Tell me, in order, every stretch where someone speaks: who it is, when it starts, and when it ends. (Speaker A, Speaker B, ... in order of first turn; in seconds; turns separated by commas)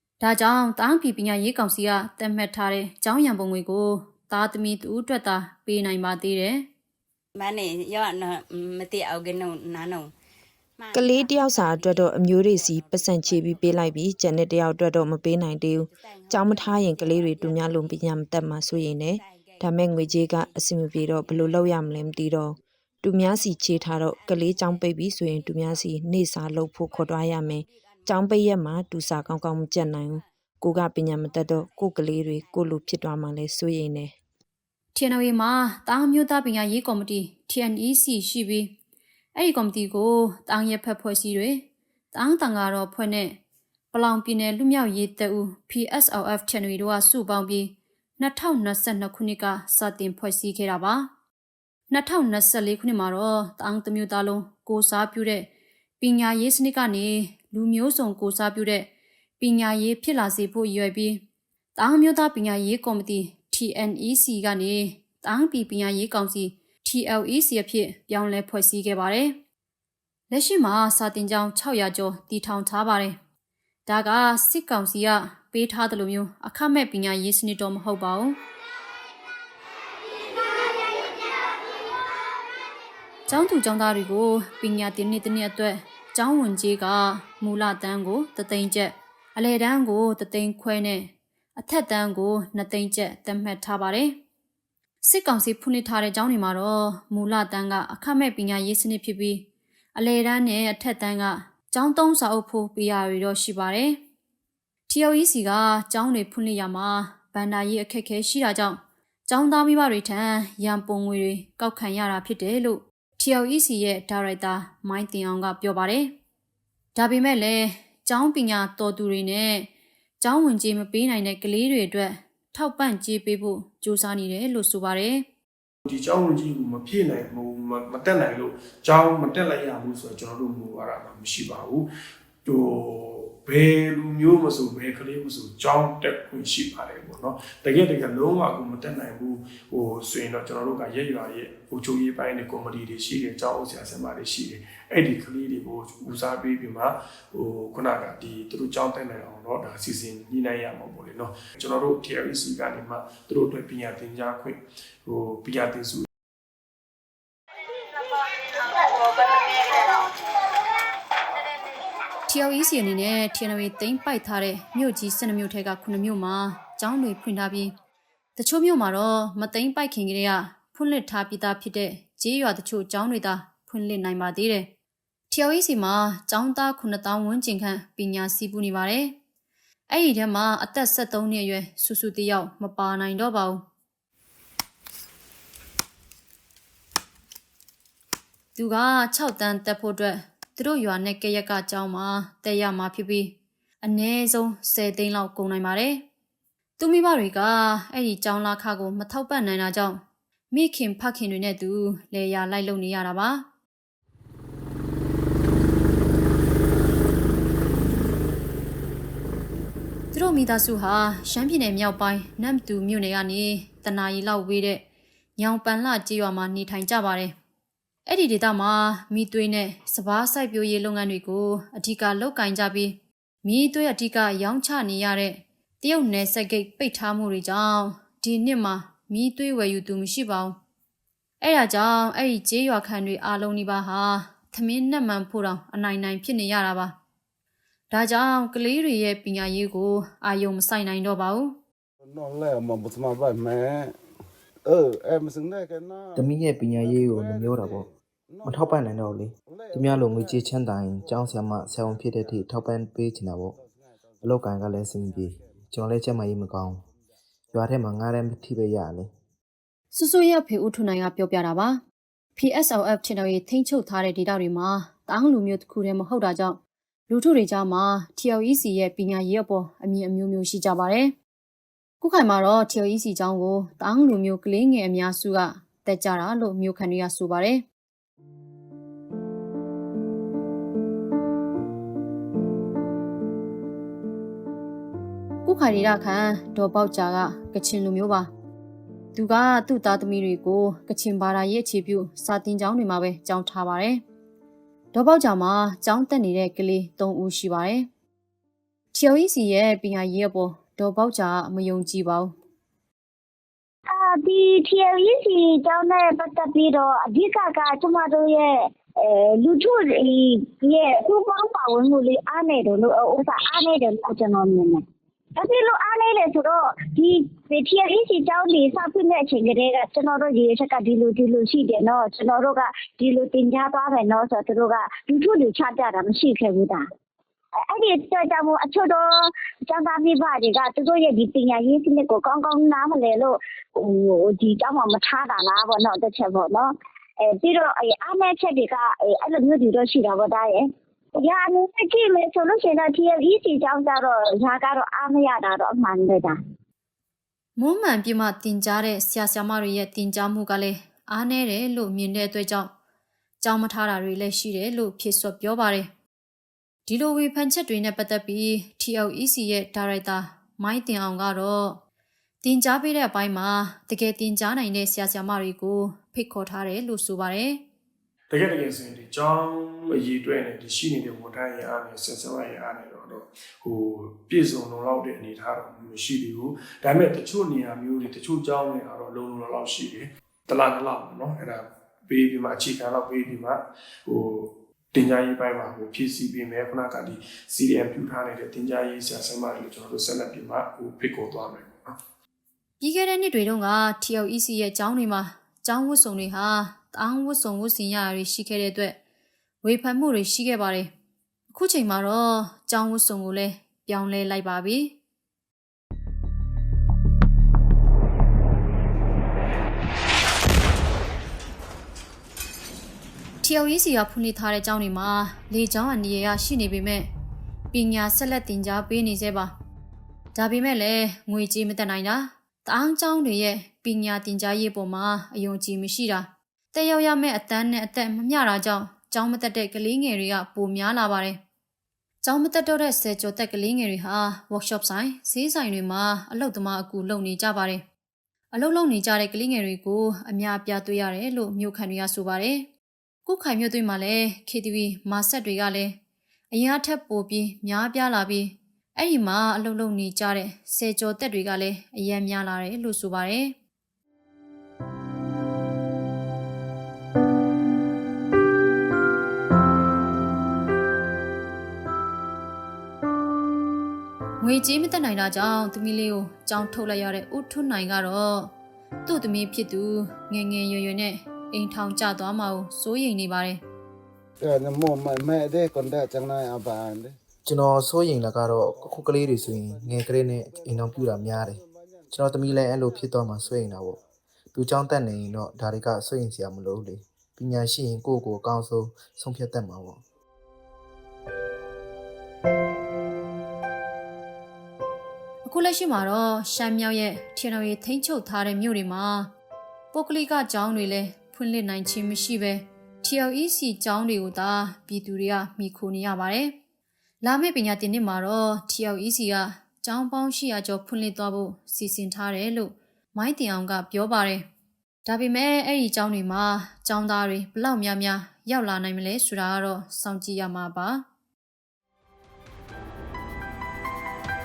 Speaker A: 0.2-6.7, Speaker B: 7.4-10.1, Speaker B: 10.8-11.1, Speaker C: 10.9-34.2, Speaker B: 11.7-13.2, Speaker B: 16.1-16.8, Speaker B: 19.2-19.6, Speaker A: 34.9-38.8, Speaker A: 39.4-43.4, Speaker A: 43.9-51.1, Speaker A: 51.9-61.2, Speaker A: 61.8-69.4, Speaker A: 70.3-73.2, Speaker A: 73.9-78.4, Speaker A: 83.3-94.2, Speaker A: 95.0-104.0, Speaker A: 104.9-116.2, Speaker A: 117.0-125.2, Speaker D: 125.9-131.9, Speaker D: 132.4-156.1, Speaker A: 162.3-167.8, Speaker A: 168.4-174.7, Speaker A: 175.3-179.2, Speaker A: 179.9-183.6, Speaker A: 188.6-196.1, Speaker A: 196.8-203.5, Speaker A: 210.1-214.9, Speaker A: 215.4-217.3, Speaker A: 218.1-230.6, Speaker A: 231.4-237.0, Speaker A: 237.9-241.6, Speaker E: 242.1-243.9, Speaker E: 244.7-246.3, Speaker F: 246.2-247.8, Speaker E: 246.9-247.8, Speaker E: 248.4-248.7, Speaker F: 248.4-253.5, Speaker E: 249.6-250.3, Speaker F: 254.2-256.8, Speaker F: 257.5-259.1, Speaker A: 259.9-261.8, Speaker A: 262.4-266.6, Speaker A: 267.1-271.1, Speaker A: 272.0-277.6, Speaker A: 285.4-288.3, Speaker A: 289.1-294.0, Speaker A: 294.9-297.9, Speaker A: 298.9-302.4, Speaker G: 303.9-314.8, Speaker G: 315.4-326.9, Speaker G: 327.6-346.4, Speaker A: 347.6-352.7, Speaker A: 353.4-355.9, Speaker A: 356.9-361.8, Speaker A: 362.4-367.6, Speaker D: 368.3-392.0, Speaker A: 392.8-399.0, Speaker A: 399.6-400.9, Speaker A: 401.5-405.0, Speaker A: 413.4-417.1, Speaker A: 417.7-419.5, Speaker A: 420.3-431.4, Speaker A: 432.2-437.8, Speaker A: 438.5-442.7, Speaker A: 443.3-446.0, Speaker A: 446.5-453.6, Speaker A: 464.4-468.5, Speaker A: 469.1-473.6, Speaker E: 474.4-477.1, Speaker F: 477.4-481.6, Speaker F: 482.1-484.0, Speaker F: 484.5-490.0, Speaker A: 495.4-499.3, Speaker A: 499.9-506.6, Speaker A: 507.2-514.5, Speaker A: 515.0-521.0